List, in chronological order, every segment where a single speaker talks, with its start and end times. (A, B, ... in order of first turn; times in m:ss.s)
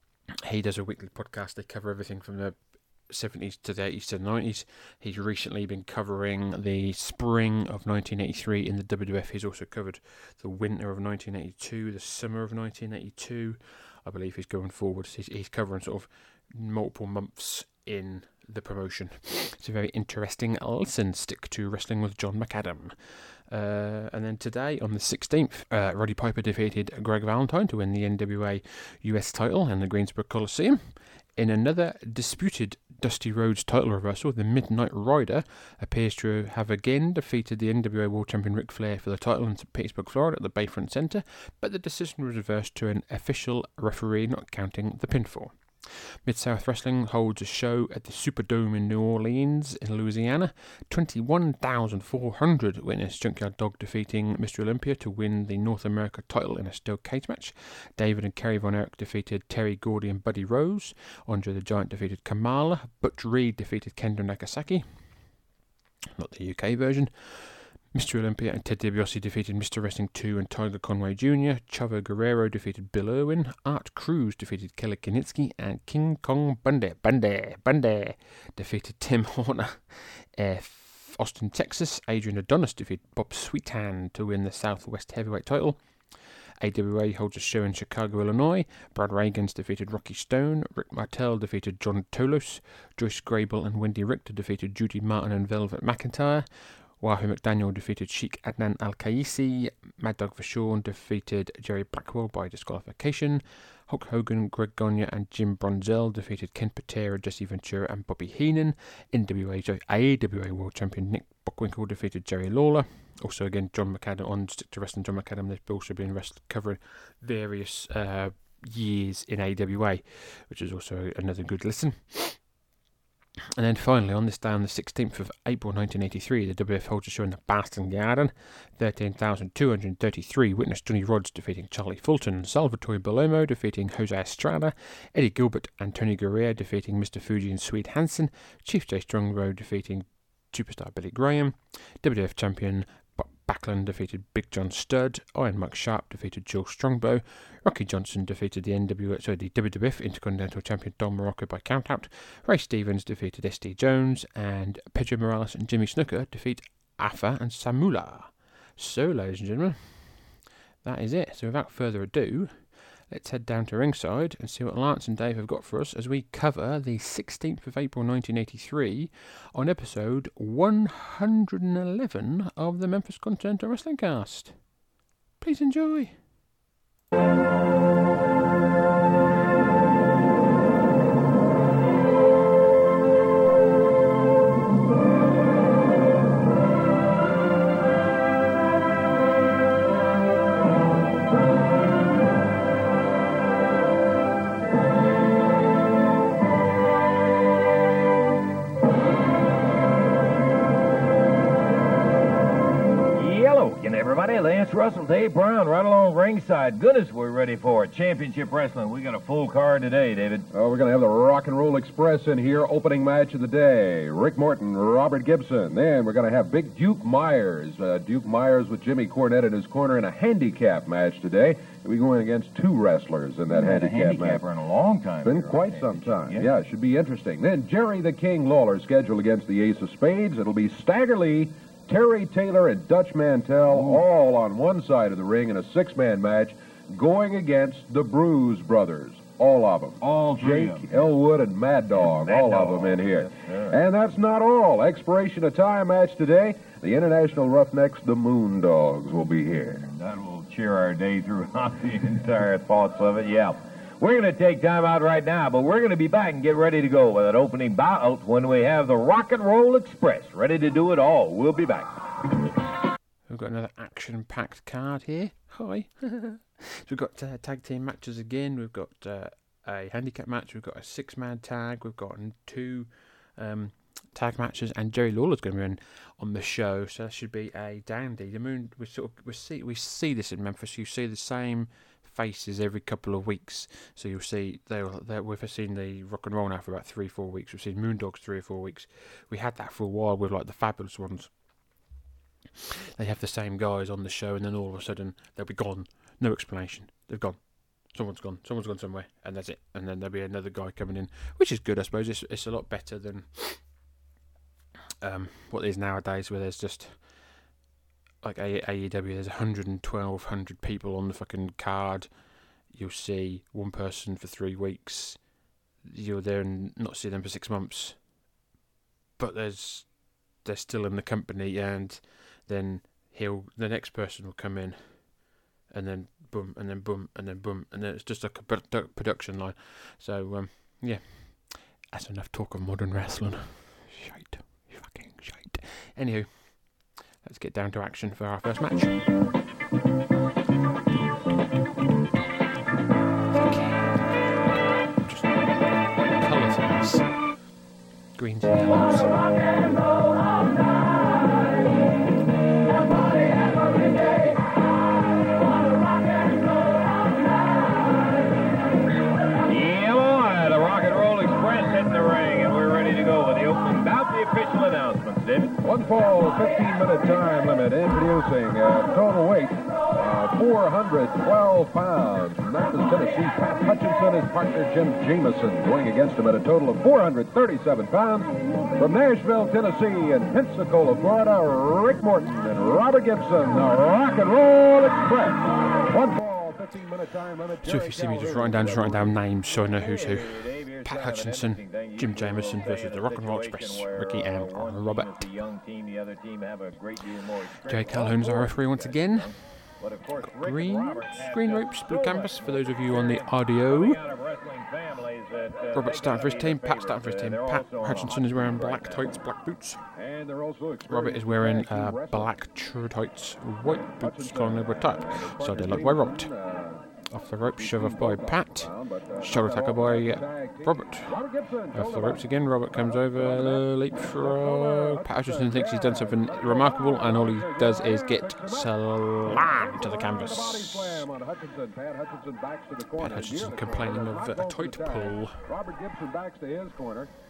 0:00.5-1:05.3 A
1:06.2-1:25.8 A
1:26.6-2:02.5 A
2:03.6-2:54.8 A
2:55.4-2:56.2 A
3:23.2-3:30.5 B
3:30.5-3:44.4 C
3:43.5-3:46.5 B
3:45.2-4:09.8 C
3:53.7-3:54.0 B
4:00.0-4:01.1 B
4:02.0-4:03.8 B
4:09.9-4:21.9 B
4:23.3-4:51.4 A
4:53.0-5:03.6 A
5:05.0-5:07.1 A
5:08.2-5:12.1 A
5:12.7-5:15.3 A
5:15.8-5:18.0 A
5:19.2-5:39.1 A
5:43.3-5:47.3 A
5:48.2-5:49.3 A
5:59.5-6:05.6 B
6:05.6-6:29.1 C
6:27.6-6:35.3 A
6:29.6-6:49.2 B
6:37.7-6:39.3 A
6:40.2-6:44.0 A
6:45.8-6:49.8 A
6:50.0-6:52.3 C
6:50.9-6:56.3 A
6:54.0-6:56.8 C
6:57.1-7:01.2 A
6:57.6-7:08.7 C
7:01.7-7:11.1 A
7:09.3-7:17.1 C
7:13.0-7:15.4 A